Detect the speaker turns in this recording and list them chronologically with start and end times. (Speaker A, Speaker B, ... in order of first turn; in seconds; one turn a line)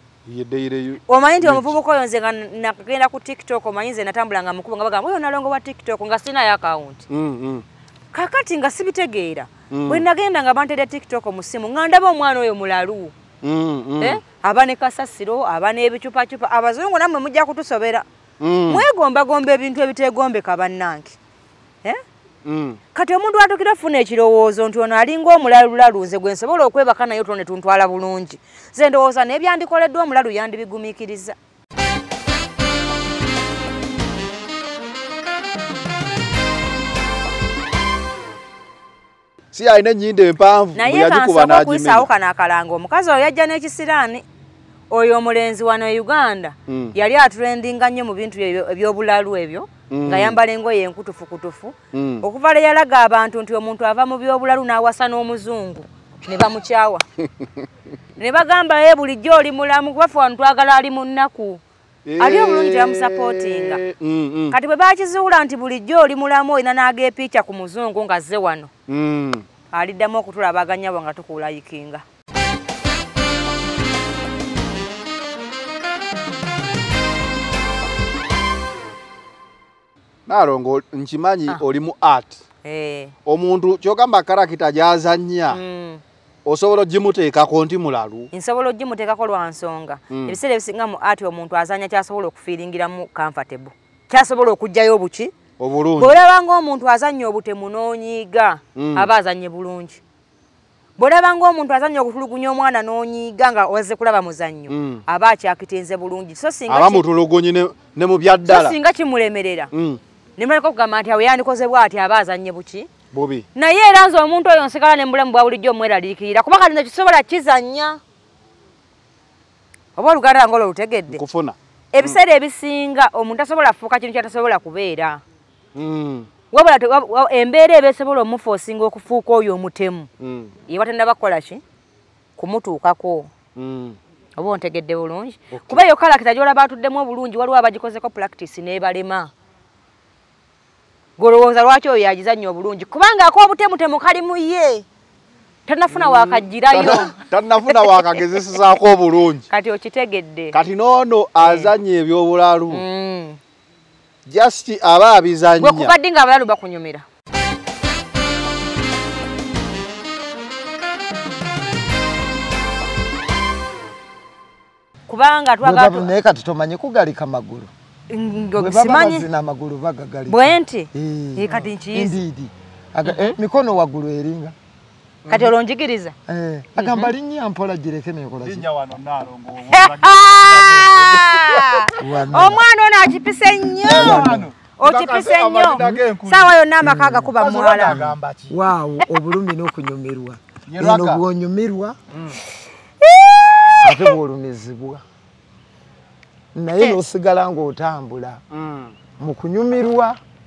Speaker A: 0.3-1.8
Speaker B: 1.1-7.0
Speaker A: 7.1-7.6
Speaker B: 8.1-13.1
Speaker A: 9.7-10.0
Speaker A: 13.4-14.2
Speaker B: 14.0-18.1
Speaker A: 18.4-18.9
Speaker B: 18.7-21.2
Speaker A: 22.4-22.8
Speaker B: 22.9-31.4
Speaker A: 39.5-42.1
Speaker B: 40.8-44.2
Speaker B: 44.9-57.0
Speaker A: 46.7-46.9
Speaker A: 49.9-50.4
Speaker A: 51.9-52.2
Speaker B: 58.2-61.6
Speaker A: 62.0-64.5
Speaker B: 62.2-63.8
Speaker B: 64.5-68.7
Speaker A: 68.9-69.4
Speaker B: 69.7-72.0
Speaker A: 80.3-82.4
Speaker B: 82.6-83.1
Speaker A: 83.2-85.6
Speaker B: 85.5-86.0
Speaker A: 86.4-88.3
Speaker B: 88.3-95.3
Speaker A: 90.1-90.4
Speaker A: 95.6-96.2
Speaker B: 96.0-100.0
Speaker A: 98.8-99.1
Speaker B: 101.0-107.0
Speaker A: 104.7-105.0
Speaker A: 106.7-108.8
Speaker B: 108.5-109.7
Speaker A: 109.7-110.0
Speaker B: 110.4-112.9
Speaker A: 113.1-113.5
Speaker B: 113.5-118.0
Speaker B: 120.0-121.2
Speaker A: 121.1-122.2
Speaker B: 121.9-125.2
Speaker A: 125.8-126.3
Speaker B: 126.5-130.1
Speaker A: 130.2-130.5
Speaker B: 130.7-131.6
Speaker B: 132.4-133.3
Speaker A: 133.6-134.0
Speaker B: 134.4-139.3
Speaker A: 135.5-135.8
Speaker B: 141.2-144.8
Speaker B: 145.7-147.1
Speaker A: 145.9-149.5
Speaker B: 147.8-148.2
Speaker B: 149.5-150.6
Speaker A: 150.5-152.8
Speaker B: 151.4-151.7
Speaker B: 152.7-153.4
Speaker A: 154.2-155.9
Speaker B: 155.6-157.0
Speaker B: 165.1-166.1
Speaker C: 165.6-167.7
Speaker B: 168.1-169.3
Speaker C: 168.6-174.5
Speaker B: 170.3-172.2
Speaker B: 173.0-173.3
Speaker A: 175.2-175.5
Speaker B: 175.3-176.1
Speaker C: 176.3-178.7
Speaker B: 176.8-177.1
Speaker A: 178.4-181.8
Speaker B: 179.7-188.0
Speaker C: 182.0-182.6
Speaker A: 183.8-186.5
Speaker C: 183.9-184.5
Speaker C: 186.8-187.3
Speaker A: 187.4-188.6
Speaker C: 187.9-192.0
Speaker A: 190.7-191.2
Speaker A: 192.1-192.4
Speaker C: 193.8-195.0
Speaker C: 196.5-198.4
Speaker A: 198.5-198.9
Speaker C: 199.2-200.2